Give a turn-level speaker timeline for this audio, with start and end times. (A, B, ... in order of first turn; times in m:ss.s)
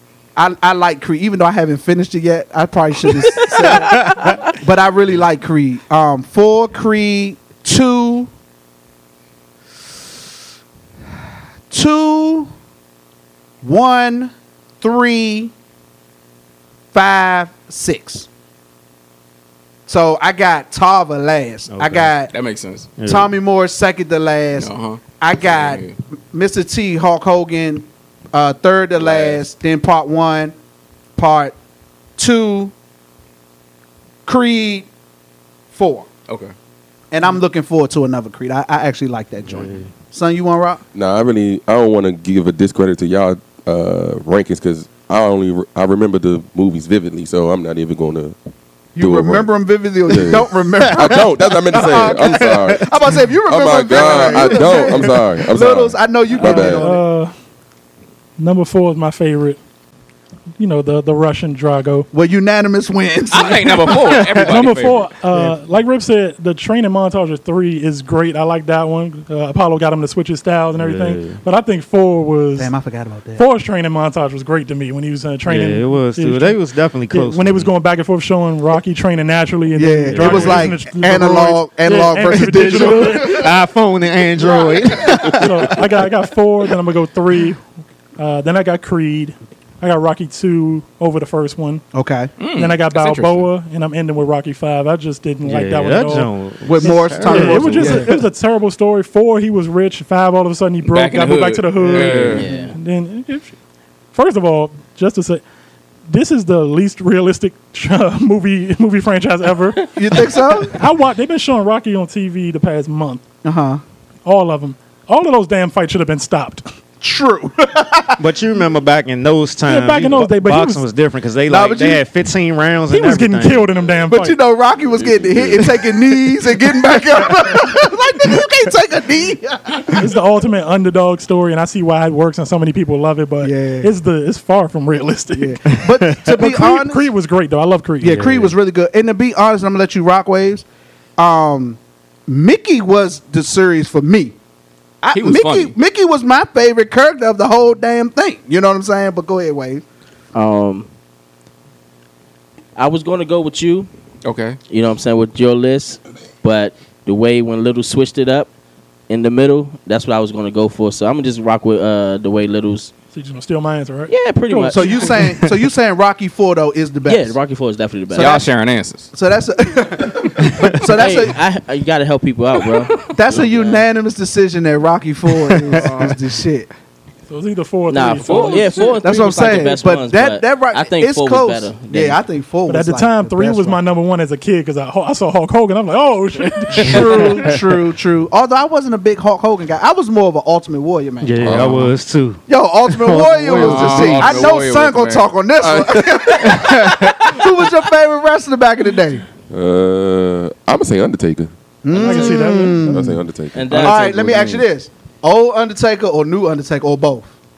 0:00.4-0:08.3 A
0:03.2-0:04.0 B
0:11.7-0:12.5 A
0:13.6-0:15.5 A
0:16.9-0:18.3 A
0:19.9-0:22.3 A
0:21.7-0:22.1 C
0:22.3-0:22.9 D
0:23.0-0:23.3 C
0:23.0-0:30.5 A
0:24.6-0:25.9 D
0:29.0-0:29.4 D
0:31.2-0:31.5 A
0:32.2-0:32.7 A
0:34.2-0:34.9 A
0:35.7-0:36.1 A
0:36.3-0:36.5 D
0:37.1-0:40.8 A
0:39.4-0:39.9 C
0:40.9-0:48.3 E
0:48.9-0:57.0 A
0:49.0-0:49.5 E
0:50.1-0:56.9 E
0:50.8-0:52.8 C
0:54.2-0:54.9 C
0:56.4-0:57.3 F
0:58.4-0:59.6 F
1:00.6-1:02.1 F
1:02.1-1:04.3 A
1:03.3-1:05.1 D
1:04.3-1:12.7 F
1:10.8-1:11.4 C
1:12.6-1:13.4 A
1:13.3-1:16.6 F
1:15.4-1:17.7 C
1:17.1-1:23.4 F
1:19.8-1:23.5 A
1:20.1-1:20.8 C
1:22.5-1:25.8 C
1:24.5-1:25.2 A
1:25.3-1:27.6 F
1:28.2-1:31.8 F
1:31.9-1:32.3 A
1:32.4-1:33.5 D
1:32.5-1:43.5 F
1:35.4-1:38.2 C
1:36.6-1:38.2 A
1:40.8-1:42.4 D
1:41.8-1:42.4 C
1:42.3-1:42.8 B
1:44.1-1:45.4 F
1:46.1-1:49.9 F
1:49.9-1:50.8 A
1:50.7-1:53.2 F
1:53.4-1:53.8 A
1:54.2-1:56.7 F
1:57.0-1:58.2 A
1:58.2-2:03.7 C
1:59.6-2:00.8 F
2:01.5-2:02.0 A
2:02.9-2:04.4 F
2:04.1-2:10.0 A
2:04.8-2:05.7 E
2:09.9-2:15.6 F
2:13.4-2:13.9 A
2:15.3-2:17.1 A
2:15.9-2:16.3 C
2:16.3-2:18.2 F
2:18.0-2:20.6 A
2:18.0-2:18.5 C
2:21.2-2:24.3 A
2:25.0-2:29.8 A
2:25.1-2:25.7 D
2:30.3-2:30.9 B
2:32.8-2:33.9 B
2:34.2-2:34.6 D
2:34.7-2:38.5 B
2:39.1-2:42.9 B
2:43.1-2:45.3 F
2:44.1-2:45.1 B
2:44.7-2:47.4 A
2:47.0-2:48.5 B
2:48.1-2:49.1 D
2:49.1-2:51.4 A
2:50.8-2:53.8 B
2:53.0-2:56.7 A
2:57.3-2:59.0 F
2:57.9-3:02.2 B
2:58.3-2:58.8 D
2:59.0-3:03.8 A
3:02.7-3:07.5 F
3:06.7-3:11.7 A
3:06.8-3:07.6 C
3:11.2-3:14.5 C
3:11.4-3:11.8 E
3:12.5-3:19.2 A
3:13.5-3:15.3 D
3:15.6-3:16.7 E
3:16.4-3:17.2 C
3:19.5-3:21.5 E
3:21.8-3:23.2 A
3:21.9-3:22.6 B
3:21.9-3:23.0 F
3:22.8-3:24.0 E
3:23.5-3:24.6 B
3:23.7-3:27.3 A